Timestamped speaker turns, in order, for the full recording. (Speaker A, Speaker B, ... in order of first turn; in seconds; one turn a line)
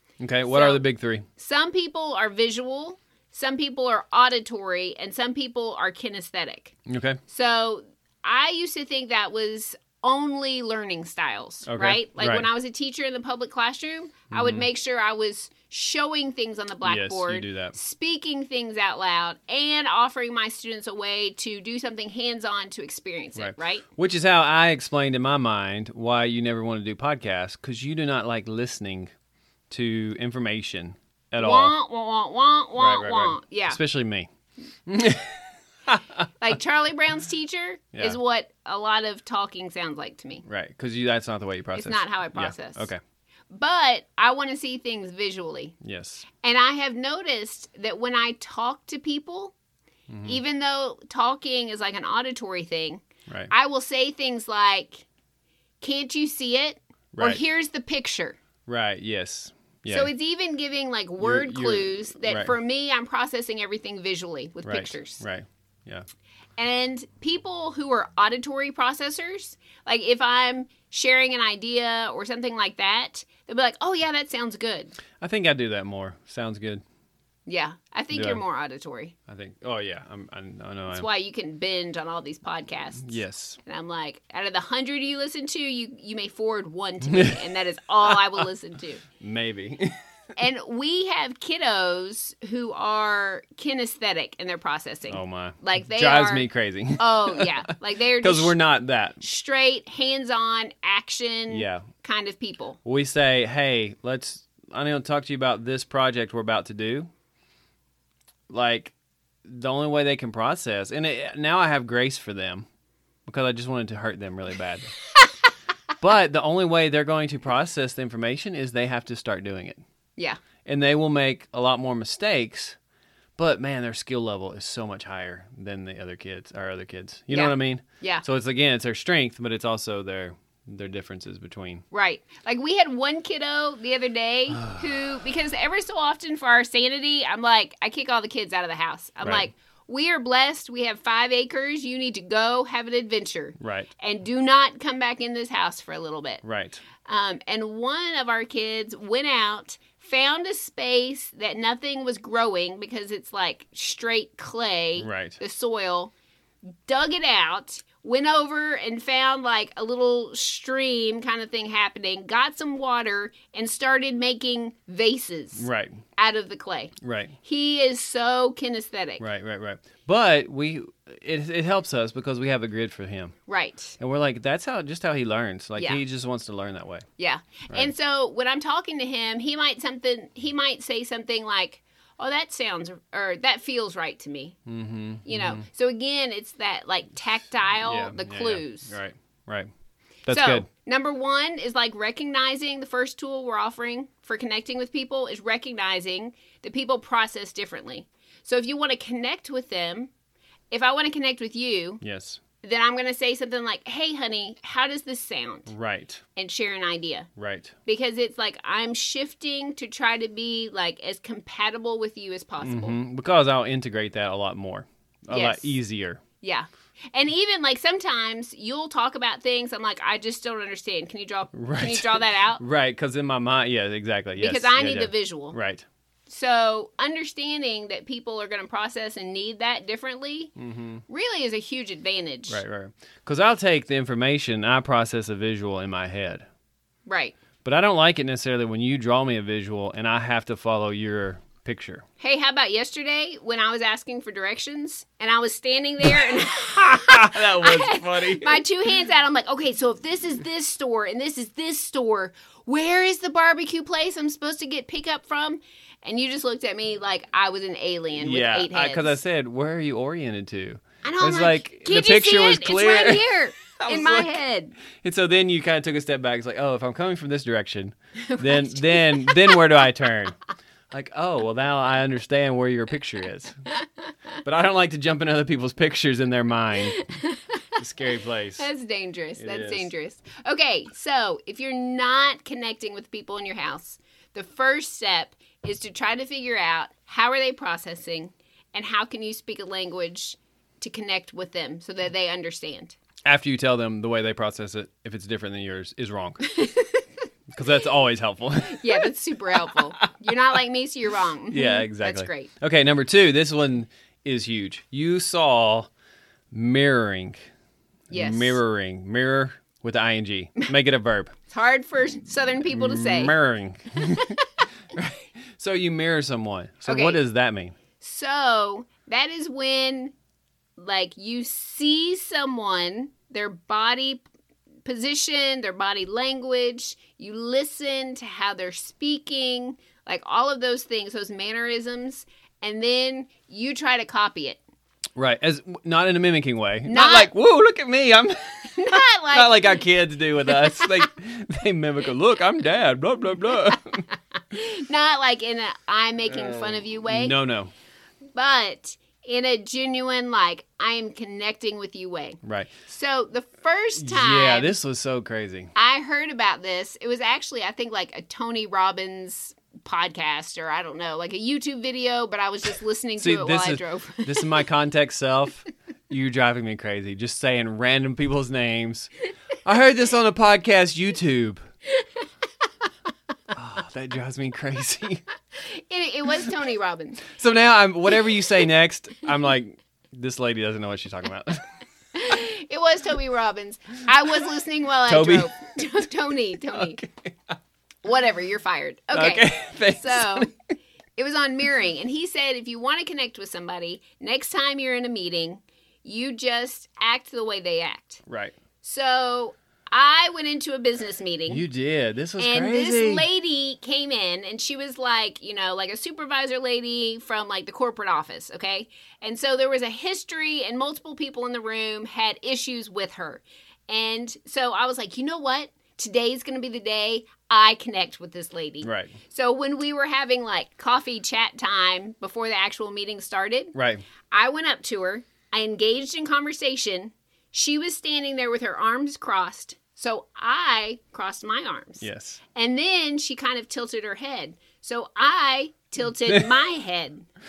Speaker A: 0.2-1.2
Speaker B: 0.5-0.8
Speaker B: 1.4-6.7
Speaker A: 6.9-7.2
Speaker B: 7.3-23.9
Speaker A: 11.7-12.5
Speaker A: 14.3-14.7
Speaker A: 16.8-17.8
Speaker A: 23.4-29.1
Speaker A: 29.7-31.7
Speaker B: 31.4-33.8
Speaker A: 32.8-34.3
Speaker A: 34.9-36.2
Speaker B: 36.4-40.4
Speaker A: 37.9-38.2
Speaker A: 40.5-43.0
Speaker B: 41.7-42.9
Speaker B: 43.5-45.7
Speaker A: 45.8-46.2
Speaker B: 46.4-49.5
Speaker A: 50.1-50.4
Speaker B: 50.2-55.0
Speaker A: 53.3-53.5
Speaker B: 55.8-58.4
Speaker A: 57.1-57.4
Speaker A: 58.7-60.1
Speaker B: 59.9-65.2
Speaker A: 61.2-62.5
Speaker A: 64.6-66.0
Speaker B: 66.6-74.9
Speaker A: 75.2-76.8
Speaker B: 77.5-79.1
Speaker A: 78.1-78.4
Speaker A: 79.3-81.1
Speaker B: 80.9-89.0
Speaker A: 83.0-83.6
Speaker A: 87.0-87.4
Speaker A: 88.0-88.5
Speaker A: 89.2-90.0
Speaker B: 90.3-98.6
Speaker A: 95.1-99.2
Speaker B: 99.2-102.8
Speaker A: 101.5-101.8
Speaker A: 102.8-107.1
Speaker A: 108.5-108.9
Speaker A: 109.4-112.6
Speaker A: 113.2-114.9
Speaker A: 116.0-119.8
Speaker A: 120.6-122.8
Speaker A: 123.4-131.8
Speaker B: 127.3-128.2
Speaker B: 131.9-146.4
Speaker A: 134.5-134.9
Speaker A: 139.2-139.5
Speaker A: 143.6-143.9
Speaker A: 146.4-146.8
Speaker B: 147.0-156.1
Speaker A: 155.0-155.4
Speaker B: 156.8-169.2
Speaker A: 165.5-166.0
Speaker A: 167.0-167.3
Speaker A: 169.2-173.3
Speaker B: 173.5-174.0
Speaker A: 174.0-177.0
Speaker B: 177.2-184.6
Speaker A: 184.7-185.6
Speaker B: 185.2-188.9
Speaker A: 187.8-189.7
Speaker A: 190.2-190.7
Speaker B: 190.3-200.1
Speaker B: 200.7-202.0
Speaker A: 202.0-202.4
Speaker B: 202.6-205.7
Speaker A: 205.7-206.2
Speaker B: 206.3-207.3
Speaker A: 207.4-207.7
Speaker B: 207.8-213.0
Speaker A: 212.6-216.2
Speaker B: 215.3-215.8
Speaker B: 216.4-222.6
Speaker A: 221.5-225.8
Speaker B: 224.4-225.6
Speaker B: 226.3-230.5
Speaker A: 230.6-231.0
Speaker B: 231.1-232.6
Speaker A: 232.5-236.4
Speaker B: 237.1-237.3
Speaker A: 237.6-242.0
Speaker B: 242.2-259.2
Speaker A: 246.0-248.6
Speaker A: 258.1-264.4
Speaker B: 261.0-264.8
Speaker A: 264.9-270.4
Speaker B: 268.2-269.6
Speaker A: 270.9-273.6
Speaker A: 274.4-277.1
Speaker B: 276.9-277.6
Speaker A: 277.8-278.7
Speaker B: 278.6-293.0
Speaker A: 279.4-279.9
Speaker A: 293.2-296.6
Speaker B: 296.5-297.0
Speaker A: 297.5-299.1
Speaker B: 298.7-302.5
Speaker A: 301.5-305.9
Speaker A: 306.5-307.4
Speaker B: 308.1-308.6
Speaker A: 308.1-311.3
Speaker B: 311.5-313.3
Speaker A: 312.7-314.4
Speaker B: 314.1-314.4
Speaker A: 314.9-317.7
Speaker B: 316.9-317.2
Speaker B: 318.0-320.1
Speaker B: 320.8-324.2
Speaker B: 324.8-334.6
Speaker A: 335.1-344.0
Speaker B: 336.8-337.3
Speaker B: 338.7-339.8
Speaker B: 340.5-340.9
Speaker B: 344.5-347.4
Speaker A: 346.3-347.7
Speaker B: 348.3-354.7
Speaker A: 352.4-352.7
Speaker A: 353.9-355.7
Speaker B: 355.7-364.6
Speaker A: 363.2-369.1
Speaker A: 369.6-371.6
Speaker A: 373.5-375.2
Speaker B: 375.7-377.3
Speaker A: 377.3-381.6
Speaker B: 382.1-387.0
Speaker A: 385.1-386.0
Speaker A: 386.7-387.6
Speaker B: 388.0-390.5
Speaker A: 389.1-390.5
Speaker B: 391.2-398.2
Speaker A: 398.3-398.5
Speaker B: 398.8-401.6
Speaker A: 401.5-403.3
Speaker B: 402.4-423.7
Speaker A: 418.8-419.1
Speaker A: 423.7-424.0
Speaker B: 424.3-437.2
Speaker A: 432.0-432.4
Speaker A: 436.3-436.5